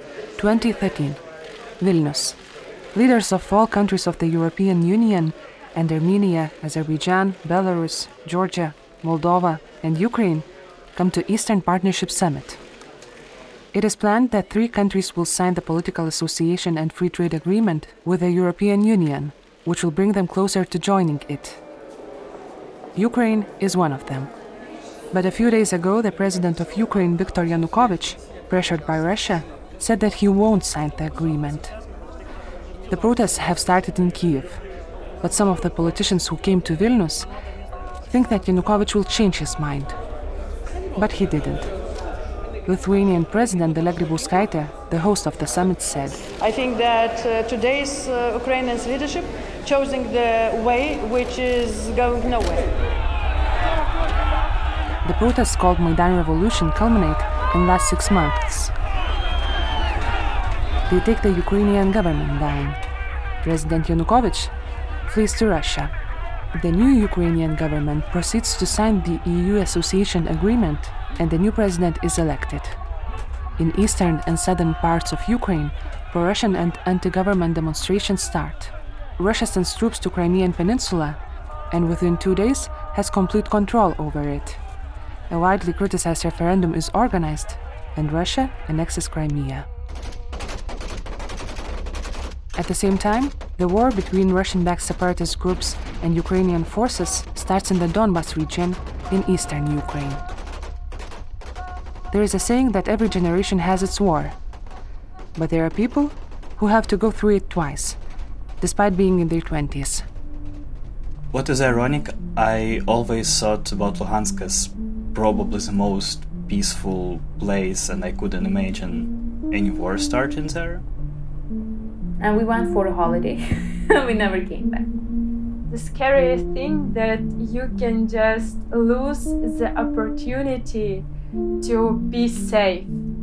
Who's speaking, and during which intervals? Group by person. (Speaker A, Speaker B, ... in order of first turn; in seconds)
Speaker A: 0.4-1.2, 1.8-2.4, 2.9-12.6, 13.7-21.6, 22.9-24.3, 25.1-31.8, 32.9-34.6, 35.2-37.3, 38.1-40.0, 41.0-41.7, 42.6-46.2, 55.0-58.7, 60.9-62.8, 63.4-64.5, 65.1-65.9, 66.5-72.8, 73.6-81.2, 81.7-84.6, 85.3-89.7, 92.6-100.2, 102.1-104.4, 105.3-108.0, 108.6-110.1
Speaker B: 46.4-52.7
Speaker C: 111.3-120.8
Speaker D: 122.2-124.9
Speaker E: 125.7-131.1, 131.6-132.9